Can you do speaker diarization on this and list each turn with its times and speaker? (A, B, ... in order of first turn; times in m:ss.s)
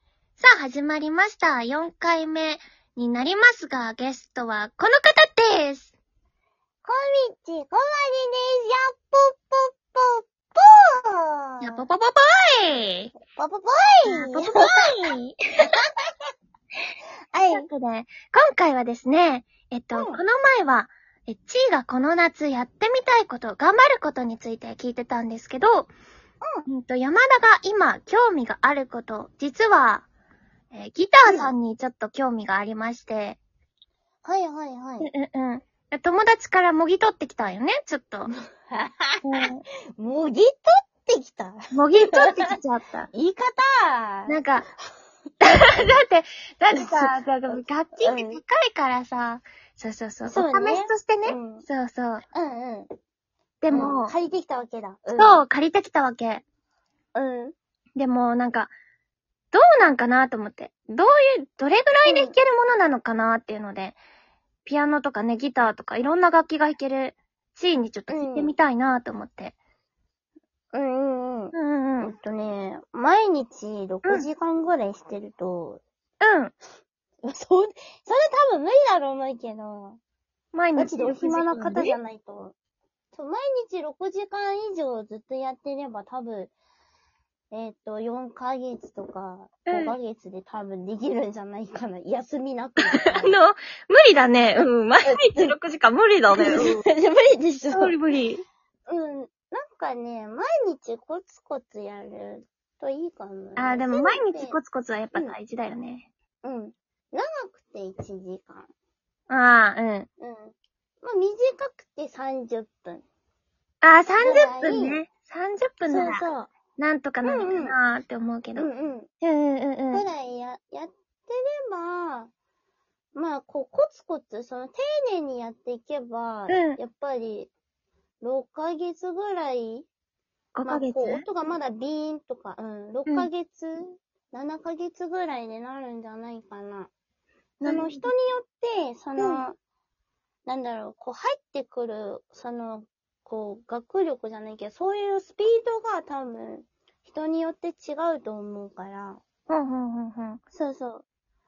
0:00.4-0:05.9 A
0:06.8-0:11.9 B
0:11.6-0:13.1 A
0:13.2-0:15.0 B
0:14.1-0:15.9 A
0:17.3-0:17.7 B
0:17.5-0:25.9 A
0:19.9-0:20.2 B
0:26.7-0:30.1 A
0:30.7-0:33.4 A
0:31.3-0:31.5 B
0:34.2-0:35.1 B
0:35.0-0:38.3 A
0:38.3-0:39.2 B
0:39.2-0:39.6 A
0:40.0-0:42.6 B
0:41.7-0:43.1 A
0:43.1-0:44.4 B
0:44.3-0:44.7 A
0:45.4-0:52.2 A
0:46.7-0:48.4 B
0:50.3-0:51.7 B
0:52.3-0:52.9 B
0:53.6-0:54.1 A
0:53.7-0:55.4 B
0:55.2-0:56.4 A
0:57.2-0:57.5 B
0:58.0-0:58.7 A
0:59.5-1:04.0 A
1:02.1-1:02.3 B
1:04.6-1:09.6 A
1:08.1-1:08.6 B
1:10.7-1:15.8 B
1:11.5-1:12.1 A
1:16.2-1:16.5 A
1:17.2-1:20.0 B
1:20.5-1:22.0 A
1:20.8-1:22.6 B
1:23.1-1:26.5 B
1:27.5-1:33.3 B
1:29.7-1:29.9 A
1:33.2-1:36.8 A
1:35.0-1:35.6 B
1:36.3-1:38.2 B
1:37.7-1:38.4 A
1:38.9-1:44.6 B
1:43.6-1:46.1 A
1:46.4-1:48.7 B
1:49.3-1:50.1 A
1:50.2-1:53.0 B
1:53.8-1:56.2 A
1:54.2-1:55.0 B
1:55.9-1:56.5 B
1:56.8-1:58.7 A
1:57.2-1:57.8 B
1:58.6-1:59.1 B
1:59.2-2:00.0 A
1:59.9-2:02.3 B
2:03.1-2:07.5 B
2:06.5-2:06.8 A
2:08.2-2:09.9 B
2:10.6-2:11.2 A
2:10.7-2:16.9 B
2:17.6-2:19.6 B
2:17.6-2:18.1 A
2:19.2-2:19.4 A
2:20.5-2:29.2 B
2:29.5-2:30.4 A
2:30.5-2:31.0 B